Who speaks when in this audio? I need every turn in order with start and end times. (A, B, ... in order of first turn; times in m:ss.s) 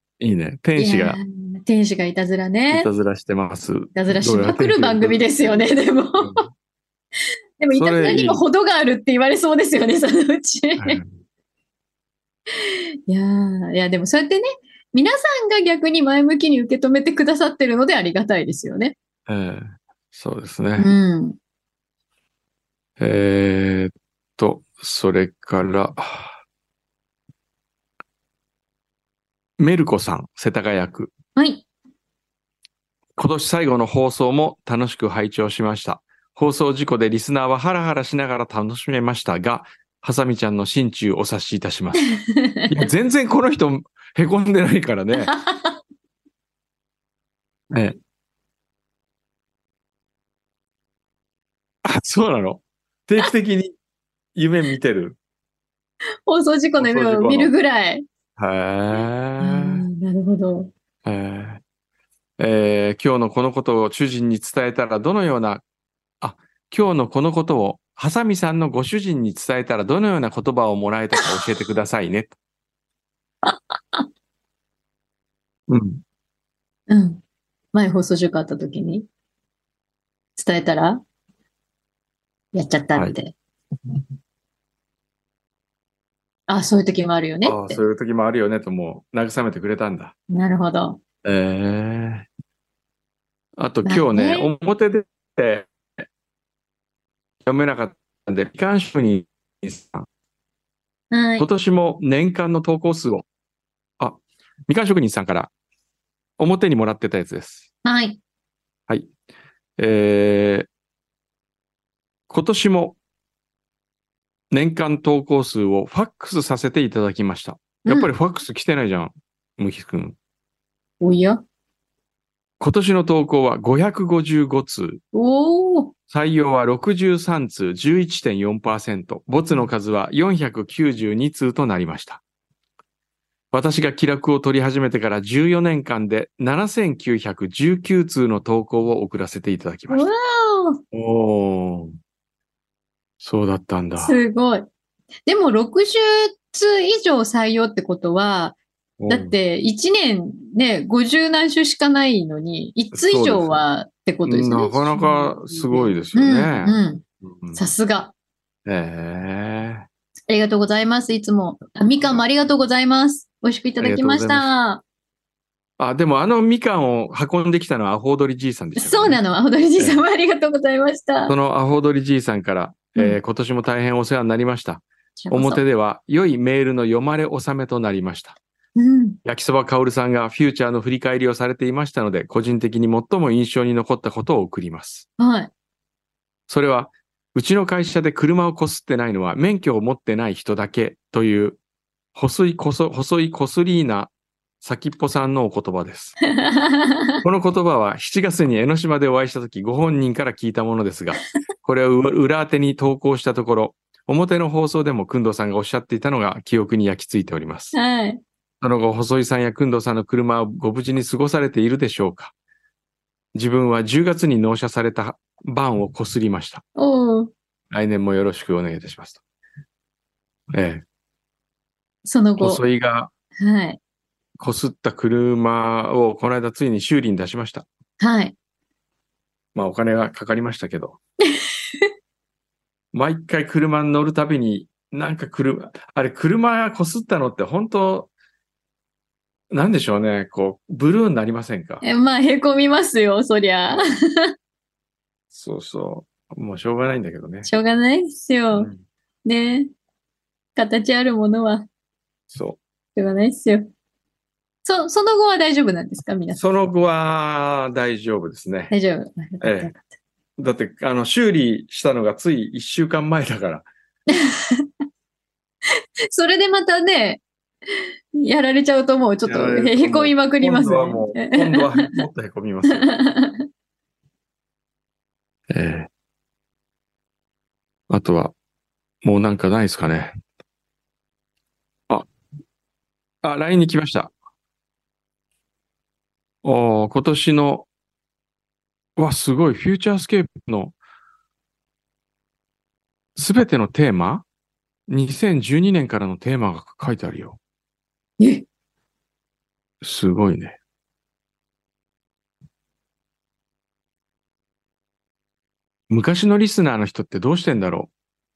0:00.2-0:01.2 A
0:00.8-0:02.9 B
0:02.7-0:06.5 A
0:03.9-0:06.4 B
0:07.6-0:11.0 B
0:07.7-0:08.4 A
0:10.8-0:11.2 A
0:12.6-0:19.0 B
0:19.3-0:21.0 A
0:20.8-0:21.4 B
0:23.0-0:26.4 A
0:29.6-0:31.1 A
0:31.4-0:31.6 B
0:33.2-0:42.1 A
0:42.0-0:42.8 B
0:42.7-0:45.3 A
0:45.2-0:45.8 B
0:51.8-0:53.8 A
0:54.4-0:55.2 A
0:56.3-0:58.0 B
0:56.8-0:57.5 A
0:58.4-0:59.9 A
0:59.4-1:00.7 B
1:01.0-1:01.6 A
1:02.4-1:05.6 A
1:06.2-1:12.4 A
1:13.4-1:14.0 B
1:15.7-1:16.0 A
1:16.9-1:17.2 B
1:17.7-1:19.1 B
1:20.4-1:21.0 B
1:22.5-1:23.4 B
1:26.5-1:27.8 B
1:27.4-1:30.1 A
1:30.3-1:31.0 B
1:31.2-1:32.3 A
1:33.6-1:35.7 A
1:33.8-1:34.5 B
1:37.4-1:40.1 A
1:41.1-1:41.5 B
1:41.4-1:43.3 A
1:44.0-1:45.5 A
1:46.4-1:47.7 A
1:47.8-1:48.2 B
1:49.8-1:50.7 A
1:52.3-1:53.0 A
1:54.5-2:00.2 A
1:57.9-1:58.1 B
2:01.0-2:01.4 B
2:02.6-2:05.0 A
2:05.1-2:05.9 B
2:06.1-2:12.2 A
2:13.5-2:20.1 A
2:19.9-2:20.8 B
2:20.9-2:22.0 A
2:23.2-2:24.2 A
2:24.0-2:24.7 B
2:25.3-2:28.6 B
2:29.0-2:29.4 A
2:29.1-2:38.1 B
2:32.9-2:33.6 A
2:34.2-2:37.6 A
2:38.7-2:39.8 A
2:40.3-2:44.8 B
2:42.0-2:42.2 A
2:43.8-2:44.5 A
2:45.8-2:49.2 A
2:48.8-2:51.4 B
2:51.3-2:58.4 A
2:55.2-2:55.6 B
2:58.8-2:59.2 B
2:59.2-3:05.1 A
3:05.2-3:05.5 B
3:06.5-3:11.6 A
3:12.2-3:16.2 A
3:16.3-3:17.2 B
3:17.2-3:27.8 A
3:27.7-3:28.2 B
3:28.6-3:32.3 A
3:33.4-3:36.6 A
3:36.8-3:37.3 B
3:37.7-3:39.2 A
3:40.5-3:40.8 A
3:42.0-3:42.6 B
3:42.4-3:43.1 A
3:43.4-3:43.8 B
3:44.4-3:47.7 A
3:48.0-3:48.4 B
3:49.6-3:51.0 A
3:52.9-3:58.1 A
3:59.5-4:01.8 A
4:01.8-4:04.3 B
4:05.3-4:07.5 A
4:07.4-4:08.7 B
4:08.5-4:08.8 A
4:09.2-4:09.7 B
4:10.6-4:11.7 B
4:12.3-4:12.6 A
4:13.0-4:13.7 B
4:14.6-4:16.4 B
4:16.3-4:18.7 A
4:18.7-4:19.9 B
4:19.4-4:19.7 A
4:20.4-4:23.7 A
4:24.1-4:24.7 B
4:26.1-4:27.2 B
4:28.2-4:32.0 B
4:29.2-4:33.0 A
4:32.7-4:33.4 B
4:35.5-4:35.9 A
4:37.9-4:38.3 A
4:39.0-4:40.1 A
4:43.2-4:44.1 A
4:46.4-4:47.7 A
4:49.0-4:50.8 A
4:53.2-4:54.3 A
4:54.9-4:57.4 A
4:58.2-4:58.4 B
4:59.8-5:00.6 A
5:05.9-5:07.9 A